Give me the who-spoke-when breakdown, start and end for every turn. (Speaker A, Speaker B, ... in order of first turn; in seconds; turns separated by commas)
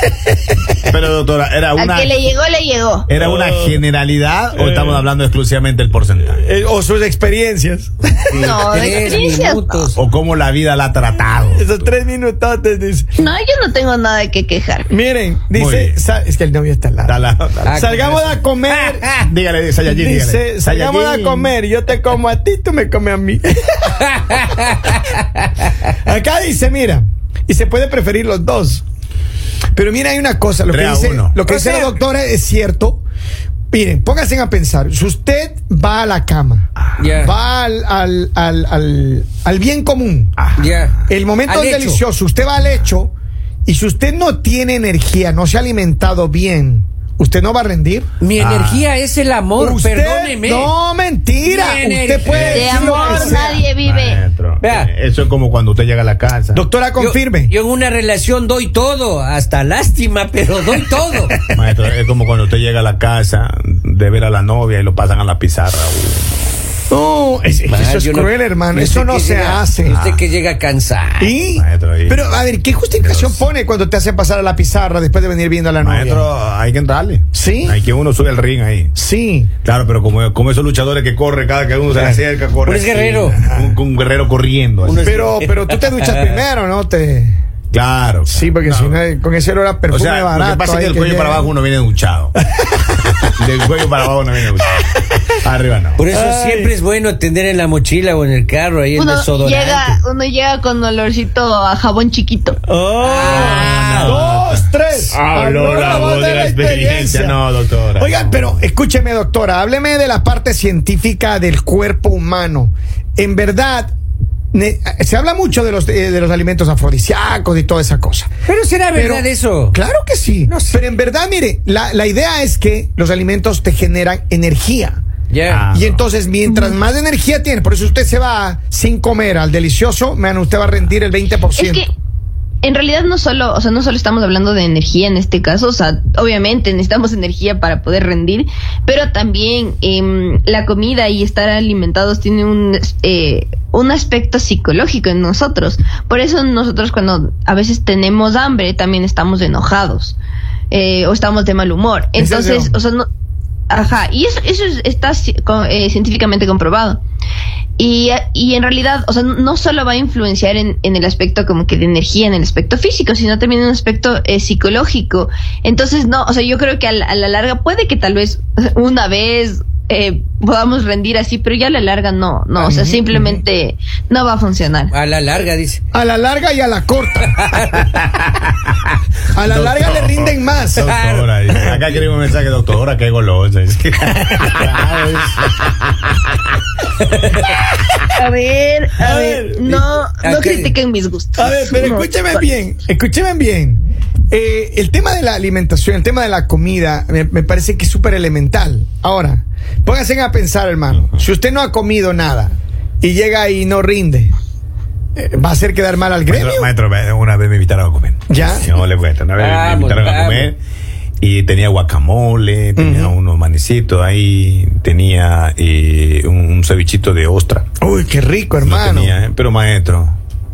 Speaker A: 0.8-2.2, Speaker B: 1.8-3.1, Speaker A: 3.1-6.5, Speaker C: 3.2-3.8, Speaker C: 4.5-5.0, Speaker C: 6.3-8.6, Speaker A: 8.3-8.7, Speaker B: 8.4-9.9, Speaker D: 8.7-10.0, Speaker A: 9.9-11.9, Speaker C: 11.6-13.1, Speaker B: 13.2-14.9, Speaker C: 14.9-17.2, Speaker A: 15.5-16.0, Speaker A: 17.1-17.9, Speaker D: 17.6-19.1, Speaker C: 17.7-19.2, Speaker A: 19.1-21.5, Speaker C: 19.9-24.8, Speaker D: 24.0-25.5, Speaker C: 26.0-28.8, Speaker C: 29.7-33.0, Speaker A: 30.7-31.4, Speaker D: 31.5-31.9, Speaker C: 33.7-40.4, Speaker D: 37.0-37.3, Speaker A: 40.4-40.9, Speaker D: 40.6-42.0, Speaker C: 41.1-43.1, Speaker C: 43.7-48.1, Speaker D: 48.2-50.7, Speaker A: 48.4-48.9, Speaker C: 49.6-53.6, Speaker D: 51.4-53.4, Speaker A: 52.3-52.6, Speaker B: 52.5-54.2, Speaker A: 53.8-56.6, Speaker D: 54.6-54.9, Speaker C: 56.5-57.5, Speaker D: 57.0-61.4, Speaker A: 61.5-66.5, Speaker C: 66.9-70.0, Speaker D: 67.7-71.4, Speaker A: 69.9-70.2, Speaker C: 71.2-76.3, Speaker A: 71.5-72.5, Speaker A: 73.0-73.5, Speaker A: 75.8-78.9, Speaker C: 77.3-77.8, Speaker C: 79.0-79.5, Speaker A: 79.6-85.1, Speaker D: 82.0-83.4, Speaker D: 84.8-86.4, Speaker C: 85.0-87.4, Speaker A: 87.7-89.0, Speaker C: 88.3-91.5, Speaker A: 89.9-92.3, Speaker C: 92.6-93.2, Speaker A: 93.4-96.0, Speaker D: 96.0-100.0, Speaker C: 96.1-96.7, Speaker B: 99.0-102.6, Speaker C: 102.7-107.4, Speaker D: 103.0-104.2, Speaker A: 103.2-108.4, Speaker C: 108.0-113.9, Speaker C: 114.5-118.3, Speaker D: 118.5-119.8, Speaker C: 118.9-125.0, Speaker D: 120.5-120.8, Speaker D: 125.3-125.6, Speaker A: 125.5-126.0, Speaker C: 125.7-131.9, Speaker B: 126.5-126.8, Speaker B: 131.6-131.9, Speaker B: 132.6-150.2, Speaker B: 150.7-153.1, Speaker C: 152.2-152.7, Speaker B: 153.7-157.0, Speaker B: 157.8-174.9, Speaker C: 172.6-173.4, Speaker D: 174.9-175.8, Speaker C: 175.9-177.6, Speaker D: 177.4-177.9, Speaker A: 178.4-185.9, Speaker C: 179.3-180.9, Speaker D: 180.8-181.2, Speaker C: 181.5-181.9, Speaker D: 184.5-185.3, Speaker D: 187.0-187.5, Speaker B: 188.2-192.4, Speaker C: 189.0-189.8, Speaker D: 190.2-190.8, Speaker C: 191.4-204.3, Speaker A: 201.0-201.2, Speaker C: 205.2-206.7, Speaker A: 206.3-210.6, Speaker C: 208.3-208.7, Speaker D: 209.4-210.5, Speaker A: 211.2-217.7, Speaker C: 212.8-213.1, Speaker C: 217.8-219.2, Speaker A: 218.6-220.2